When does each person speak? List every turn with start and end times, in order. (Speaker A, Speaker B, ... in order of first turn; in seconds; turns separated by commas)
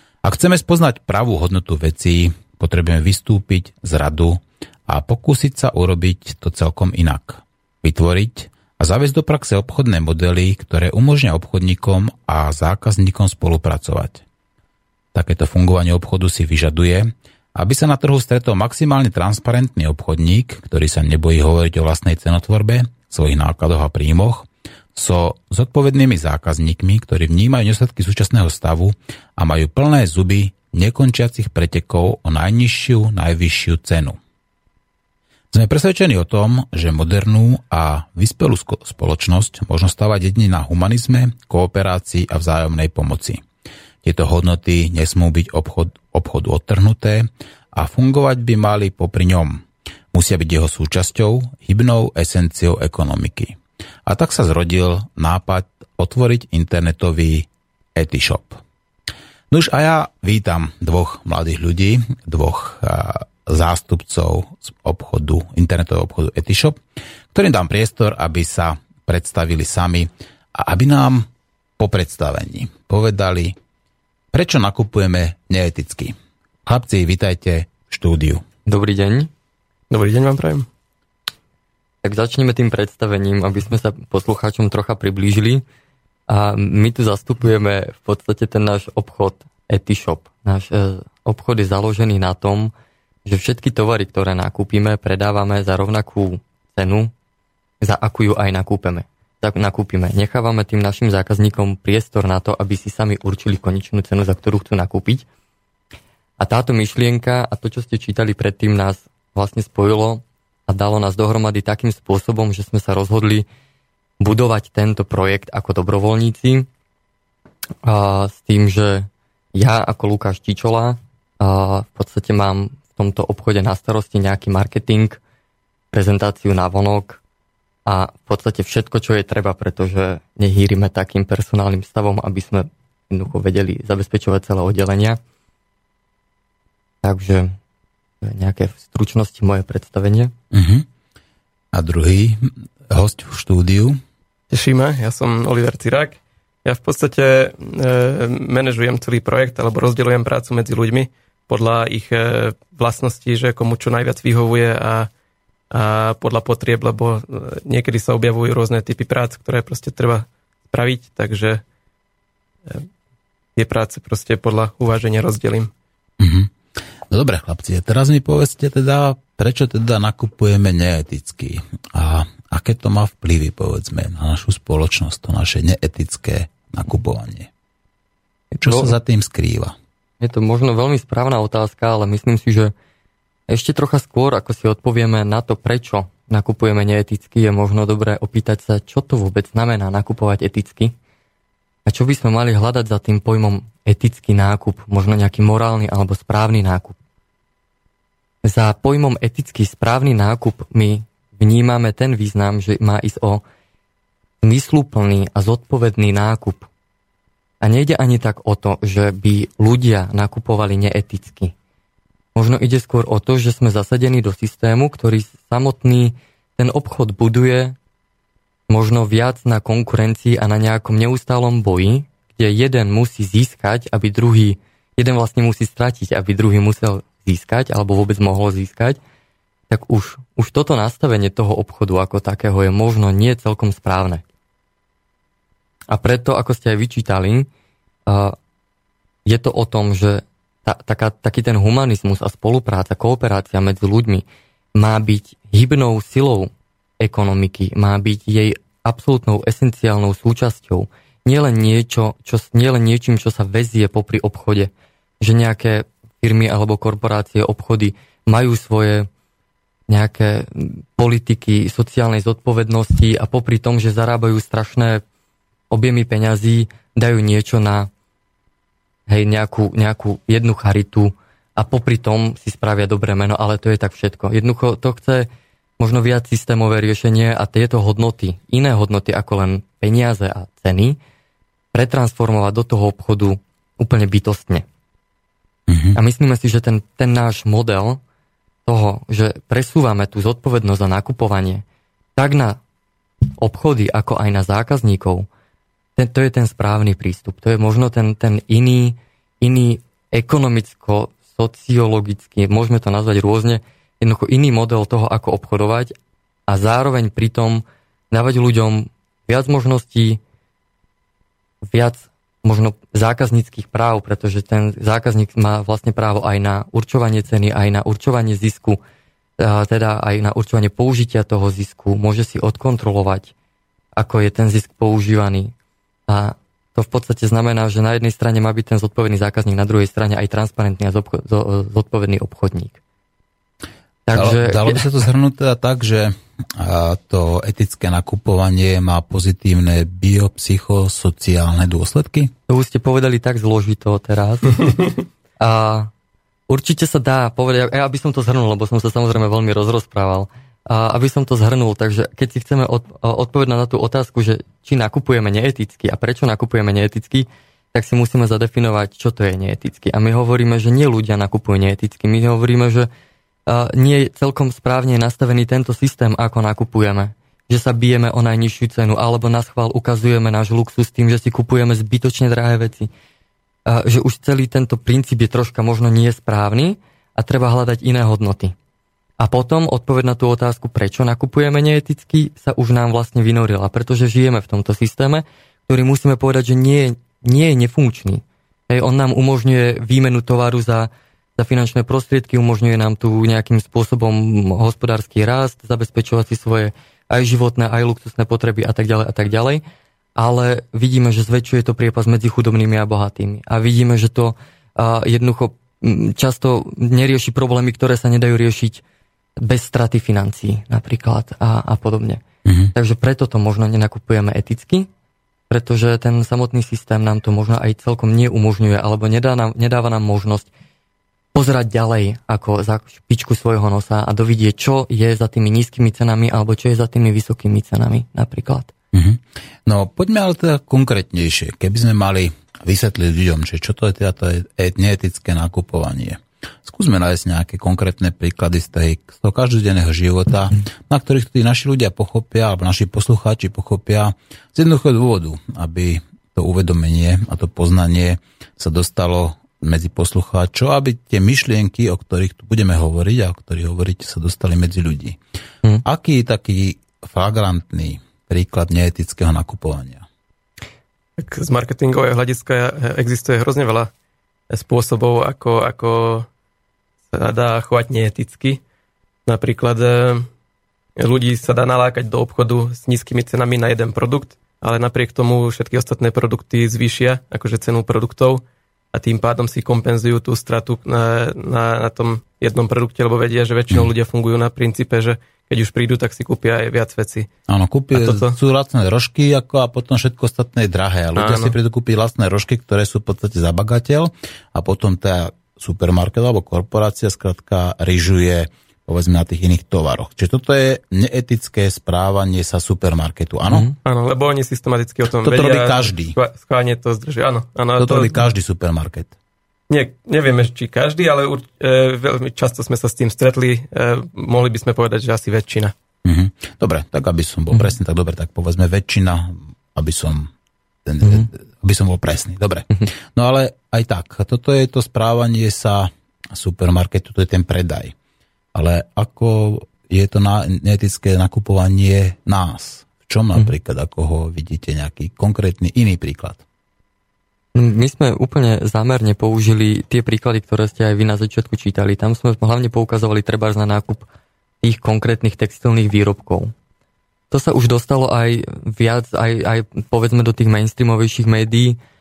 Speaker A: 0.2-14.2, Speaker A: 15.1-34.2, Speaker A: 35.5-43.4, Speaker A: 44.0-58.6, Speaker A: 59.5-66.8, Speaker A: 67.3-71.3, Speaker A: 71.8-73.5, Speaker A: 74.3-78.4, Speaker B: 78.7-79.3, Speaker C: 79.9-80.7, Speaker B: 82.0-85.6, Speaker B: 86.3-92.7, Speaker B: 93.2-97.1, Speaker B: 97.8-105.2, Speaker B: 106.4-113.4, Speaker B: 114.2-116.7, Speaker B: 117.8-125.2, Speaker B: 125.9-127.2, Speaker B: 127.9-135.2, Speaker B: 137.0-137.6, Speaker B: 138.2-140.3, Speaker A: 140.5-140.9, Speaker A: 141.7-144.0, Speaker C: 144.5-155.1, Speaker C: 155.7-161.6, Speaker C: 163.6-165.7, Speaker A: 166.2-166.5, Speaker A: 167.1-177.5, Speaker B: 178.5-178.9, Speaker A: 178.6-179.8, Speaker B: 180.2-182.7, Speaker B: 183.5-190.9, Speaker B: 191.9-196.9, Speaker B: 198.4-203.4, Speaker B: 204.4-206.7, Speaker B: 207.6-211.5, Speaker B: 212.3-217.8, Speaker B: 218.7-229.0, Speaker B: 229.7-234.2, Speaker B: 235.9-237.5, Speaker B: 238.1-238.4, Speaker B: 239.2-244.2, Speaker B: 244.8-259.1, Speaker B: 259.9-265.0, Speaker B: 265.7-267.9, Speaker B: 269.1-275.3, Speaker B: 275.8-281.0, Speaker B: 281.7-284.6, Speaker A: 285.7-286.0, Speaker B: 285.9-288.0, Speaker B: 288.6-291.6, Speaker B: 292.1-292.6, Speaker B: 293.4-295.3, Speaker B: 295.9-305.9, Speaker B: 306.5-310.2, Speaker B: 311.7-318.8, Speaker B: 319.4-323.3, Speaker B: 324.0-325.5, Speaker B: 326.1-332.8, Speaker B: 334.1-334.8, Speaker A: 334.1-342.3, Speaker B: 342.5-344.6, Speaker B: 345.4-345.9, Speaker B: 346.5-362.9, Speaker B: 363.5-372.9, Speaker B: 373.6-378.6, Speaker B: 379.2-399.6, Speaker B: 400.2-408.8, Speaker B: 409.4-412.2, Speaker A: 412.4-412.7, Speaker B: 412.7-414.9, Speaker B: 415.5-420.5, Speaker B: 421.3-428.7, Speaker A: 428.9-455.2, Speaker A: 455.8-460.0, Speaker C: 461.2-463.9, Speaker C: 464.5-466.3, Speaker C: 467.1-468.6, Speaker C: 469.2-470.3, Speaker C: 471.0-487.3, Speaker A: 487.5-503.7, Speaker C: 487.9-488.4, Speaker C: 491.1-491.5, Speaker B: 503.5-503.8, Speaker C: 503.9-508.2, Speaker A: 505.2-506.1, Speaker A: 507.8-509.1, Speaker C: 509.7-515.7, Speaker A: 516.0-520.3, Speaker A: 520.9-527.9, Speaker B: 521.0-521.3, Speaker A: 528.5-536.4, Speaker B: 537.5-544.0, Speaker B: 544.6-546.5, Speaker B: 547.3-551.8